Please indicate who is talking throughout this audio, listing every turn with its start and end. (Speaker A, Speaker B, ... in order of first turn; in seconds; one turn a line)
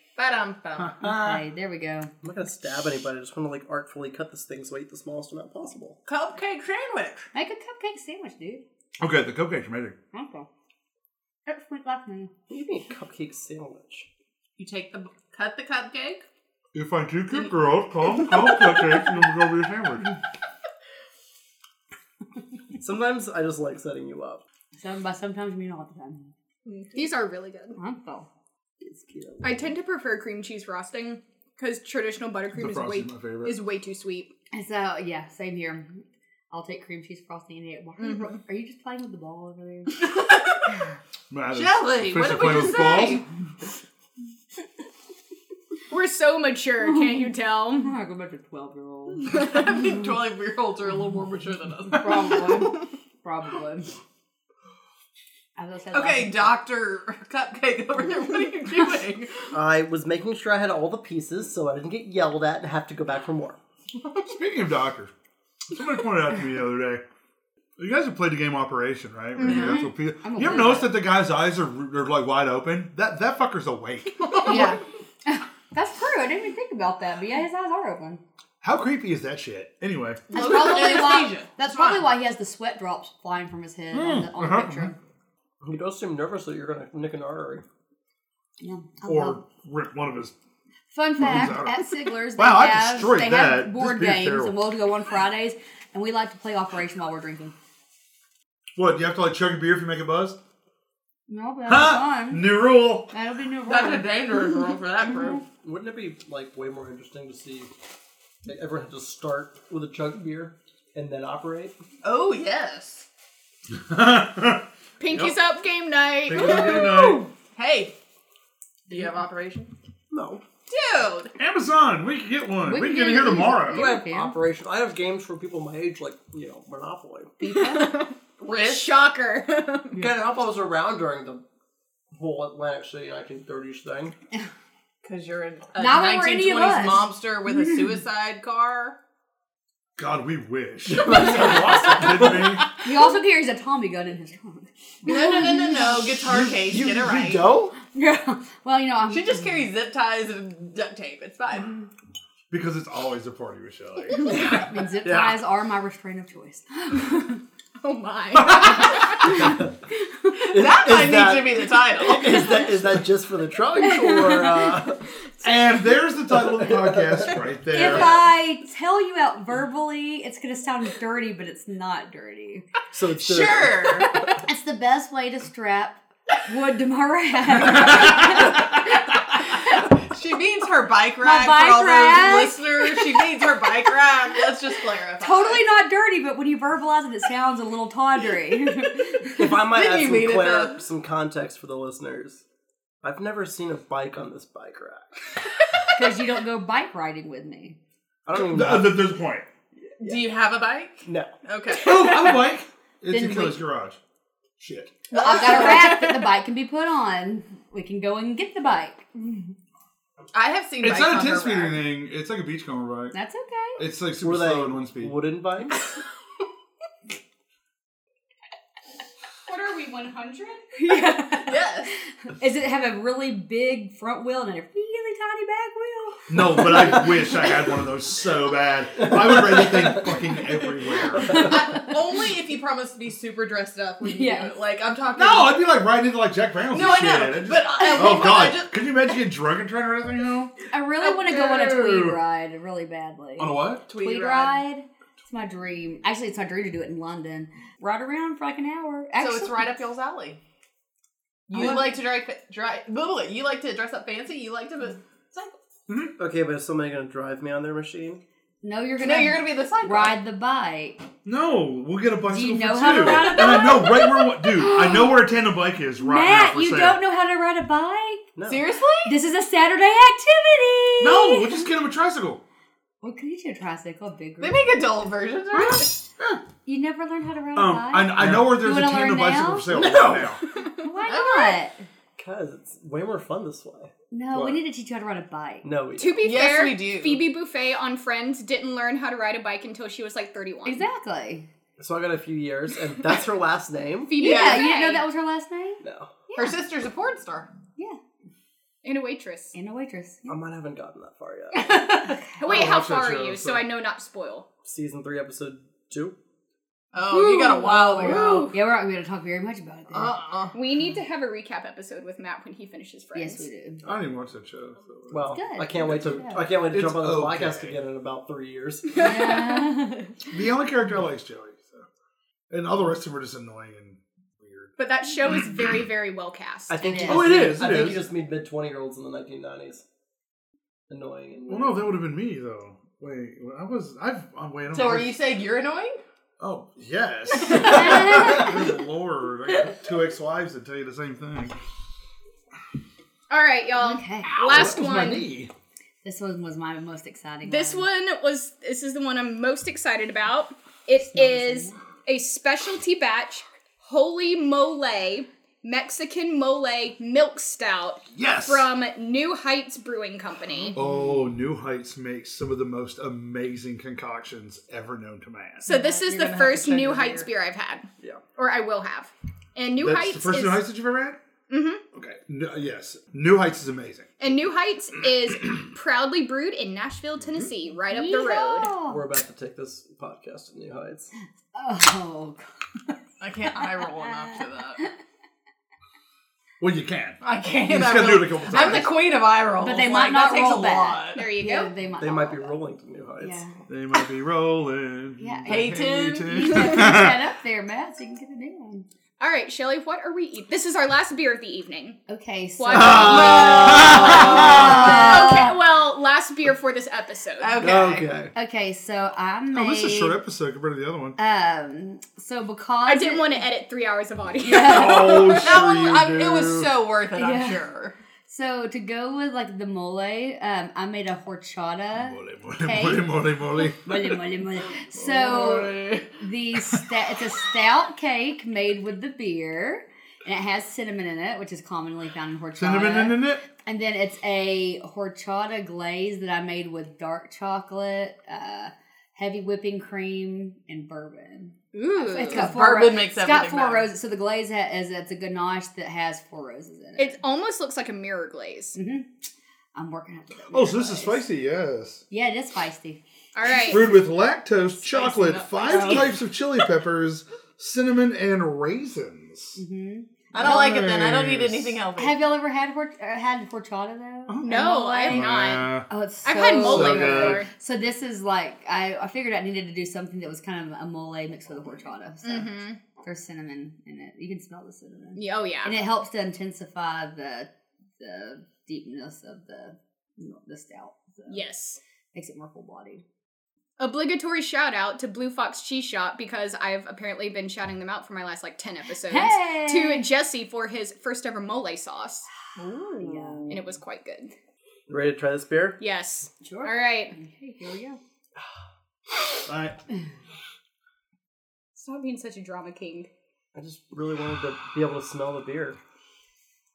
Speaker A: 0.2-1.0
Speaker B: 0.9-1.4
Speaker C: 1.0-2.1
Speaker D: 2.2-6.0
Speaker A: 6.1-7.3
Speaker C: 7.3-8.6
Speaker B: 9.0-10.0
Speaker C: 10.1-10.5
Speaker C: 11.5-12.3
Speaker D: 12.5-14.1
Speaker A: 14.6-16.2
Speaker B: 16.7-20.1
Speaker D: 22.8-24.4
Speaker C: 24.8-26.3
Speaker E: 26.7-27.8
Speaker C: 27.8-28.3
Speaker D: 28.8-29.7
Speaker E: 29.4-34.3
Speaker B: 32.5-33.7
Speaker C: 34.5-40.1
Speaker E: 38.0-38.3
Speaker A: 40.0-40.6
Speaker B: 41.3-43.2
Speaker A: 41.5-43.2
Speaker E: 45.9-47.9
Speaker C: 46.9-49.4
Speaker A: 49.3-52.5
Speaker C: 51.9-53.9
Speaker C: 55.6-56.6
Speaker A: 55.9-59.5
Speaker D: 59.5-63.6
Speaker B: 64.2-65.1
Speaker B: 65.7-67.0
Speaker B: 67.8-74.7
Speaker A: 69.4-69.8
Speaker E: 69.4-69.8
Speaker C: 69.6-71.0
Speaker C: 74.5-78.2
Speaker B: 78.6-80.3
Speaker A: 80.3-82.2
Speaker C: 80.3-85.0
Speaker B: 83.9-84.9
Speaker D: 85.6-87.6
Speaker C: 88.6-89.4
Speaker B: 89.0-90.3
Speaker C: 90.9-97.5
Speaker B: 91.2-94.6
Speaker B: 98.8-100.4
Speaker C: 101.3-102.5
Speaker B: 101.7-103.1
Speaker C: 103.1-105.4
Speaker A: 103.7-105.4
Speaker D: 105.6-107.7
Speaker D: 108.5-111.8
Speaker A: 112.0-113.1
Speaker B: 113.7-115.3
Speaker E: 115.0-116.8
Speaker B: 116.3-117.3
Speaker C: 116.3-117.3
Speaker A: 117.5-118.0
Speaker A: 118.9-119.7
Speaker D: 120.1-120.4
Speaker A: 120.7-121.3
Speaker B: 121.4-123.9
Speaker C: 122.6-124.4
Speaker D: 123.7-127.3
Speaker C: 127.4-127.9
Speaker E: 127.6-130.0
Speaker A: 128.4-129.1
Speaker D: 129.9-131.4
Speaker D: 132.1-134.2
Speaker A: 135.0-139.0
Speaker C: 135.8-137.1
Speaker B: 140.0-142.7
Speaker D: 140.9-142.6
Speaker A: 141.3-142.7
Speaker C: 142.8-146.1
Speaker A: 145.0-147.5
Speaker D: 146.3-147.8
Speaker C: 147.8-149.4
Speaker A: 149.1-151.7
Speaker B: 152.5-154.6
Speaker C: 154.3-157.4
Speaker D: 155.0-155.4
Speaker E: 157.8-159.5
Speaker B: 158.5-158.9
Speaker C: 159.2-159.6
Speaker D: 159.4-159.7
Speaker D: 160.5-165.1
Speaker A: 160.5-162.6
Speaker C: 163.8-164.8
Speaker B: 165.4-168.2
Speaker D: 166.3-167.4
Speaker C: 167.7-172.7
Speaker D: 172.9-174.1
Speaker A: 173.2-174.1
Speaker C: 174.4-178.8
Speaker B: 177.7-178.6
Speaker A: 180.0-185.6
Speaker C: 181.2-182.9
Speaker C: 185.2-189.5
Speaker D: 189.3-192.4
Speaker A: 189.5-190.8
Speaker D: 193.0-195.2
Speaker C: 195.9-197.8
Speaker D: 198.3-199.1
Speaker B: 198.3-199.5
Speaker D: 199.8-200.3
Speaker A: 200.0-202.2
Speaker D: 201.1-201.3
Speaker B: 201.8-204.0
Speaker C: 203.1-203.6
Speaker B: 204.6-205.0
Speaker A: 205.1-206.2
Speaker C: 205.1-209.3
Speaker A: 210.3-211.9
Speaker B: 210.8-213.2
Speaker C: 213.1-213.8
Speaker B: 213.8-215.2
Speaker D: 214.2-215.8
Speaker E: 219.5-220.8
Speaker C: 220.8-221.6
Speaker A: 221.4-221.9
Speaker C: 222.3-227.2
Speaker B: 226.3-231.6
Speaker D: 229.0-230.1
Speaker A: 231.2-235.7
Speaker C: 234.0-234.5
Speaker B: 235.2-240.6
Speaker A: 236.7-238.7
Speaker C: 237.8-238.2
Speaker C: 240.7-249.7
Speaker B: 241.5-242.2
Speaker B: 243.4-243.8
Speaker A: 243.9-244.6
Speaker A: 249.2-250.4
Speaker A: 251.5-255.6
Speaker C: 251.5-251.9
Speaker B: 255.9-256.1
Speaker D: 256.2-258.2
Speaker C: 258.6-261.0
Speaker A: 259.0-260.2
Speaker B: 261.2-267.0
Speaker C: 262.3-265.2
Speaker A: 263.0-263.6
Speaker C: 266.0-268.2
Speaker D: 268.4-268.7
Speaker A: 268.5-269.2
Speaker C: 269.1-271.7
Speaker B: 271.0-272.4
Speaker C: 273.0-279.7
Speaker A: 274.4-276.0
Speaker B: 277.6-280.4
Speaker D: 279.7-280.4
Speaker C: 280.8-281.8
Speaker A: 281.1-281.6
Speaker D: 282.2-284.6
Speaker C: 284.1-285.7
Speaker D: 285.6-286.4
Speaker E: 286.0-290.8
Speaker A: 286.2-287.3
Speaker C: 290.6-291.5
Speaker D: 291.8-294.2
Speaker E: 294.1-295.1
Speaker C: 294.1-296.5
Speaker A: 294.2-294.7
Speaker D: 295.8-296.2
Speaker A: 296.4-297.5
Speaker E: 298.8-299.6
Speaker C: 299.5-300.4
Speaker D: 300.3-302.8
Speaker C: 302.1-302.4
Speaker E: 302.4-304.5
Speaker B: 302.4-303.7
Speaker D: 304.6-306.2
Speaker A: 306.9-308.6
Speaker E: 307.2-308.6
Speaker C: 307.5-310.2
Speaker A: 309.9-310.6
Speaker E: 310.5-313.5
Speaker C: 313.1-313.8
Speaker B: 313.8-317.8
Speaker D: 315.1-319.4
Speaker C: 315.3-316.5
Speaker C: 319.0-320.1
Speaker B: 320.3-321.9
Speaker B: 322.5-324.7
Speaker E: 324.8-326.8
Speaker D: 326.7-329.8
Speaker C: 326.8-327.3
Speaker B: 327.1-328.1
Speaker D: 330.9-332.0
Speaker B: 331.5-335.2
Speaker A: 334.7-336.0
Speaker B: 336.4-341.6
Speaker C: 337.5-338.6
Speaker E: 343.3-345.3
Speaker C: 343.8-344.7
Speaker B: 344.4-345.5
Speaker C: 346.0-347.9
Speaker E: 347.4-360.8
Speaker C: 351.1-351.8
Speaker B: 358.1-358.7
Speaker B: 360.8-365.6
Speaker C: 360.8-361.1
Speaker E: 365.6-370.6
Speaker A: 365.6-367.3
Speaker B: 369.8-371.2
Speaker E: 371.5-371.8
Speaker B: 371.9-374.1
Speaker E: 374.2-378.7
Speaker C: 377.9-379.1
Speaker D: 378.8-381.1
Speaker C: 381.5-382.5
Speaker A: 383.2-384.9
Speaker C: 383.6-384.9
Speaker B: 386.6-389.0
Speaker A: 387.2-391.2
Speaker C: 389.6-392.6
Speaker E: 391.2-391.7
Speaker D: 392.0-393.4
Speaker C: 393.2-393.6
Speaker B: 393.7-397.2
Speaker C: 395.2-398.9
Speaker A: 395.5-396.6
Speaker E: 399.2-402.0
Speaker C: 402.1-405.6
Speaker E: 402.6-407.6
Speaker B: 402.7-404.9
Speaker A: 403.1-404.6
Speaker A: 407.4-408.1
Speaker D: 407.6-408.3
Speaker C: 408.3-410.2
Speaker B: 409.5-411.2
Speaker C: 411.2-413.4
Speaker E: 412.9-415.4
Speaker C: 414.4-415.5
Speaker B: 414.6-416.7
Speaker A: 415.3-418.0
Speaker C: 417.2-417.6
Speaker C: 418.3-447.2
Speaker B: 422.0-424.2
Speaker B: 425.0-426.0
Speaker A: 425.1-425.8
Speaker B: 432.6-433.4
Speaker E: 441.7-442.6
Speaker A: 442.3-443.9
Speaker E: 447.0-448.8
Speaker C: 448.8-451.3
Speaker B: 450.5-452.0
Speaker C: 452.1-453.0
Speaker E: 453.4-453.9
Speaker B: 453.7-459.6
Speaker A: 454.9-456.1
Speaker C: 459.6-460.8
Speaker A: 460.3-462.2
Speaker B: 460.4-461.8
Speaker C: 462.0-481.4
Speaker B: 464.3-465.9
Speaker E: 464.4-465.7
Speaker E: 466.2-467.5
Speaker B: 466.6-467.4
Speaker E: 472.2-472.8
Speaker E: 475.2-475.8
Speaker E: 481.3-481.8
Speaker C: 482.1-483.0
Speaker E: 483.8-492.3
Speaker C: 489.0-490.1
Speaker A: 492.6-493.7
Speaker C: 493.0-493.6
Speaker E: 493.5-494.3
Speaker D: 494.9-495.8
Speaker E: 495.8-497.1
Speaker C: 496.4-498.0
Speaker B: 499.5-499.8
Speaker E: 501.8-503.1
Speaker D: 503.6-505.8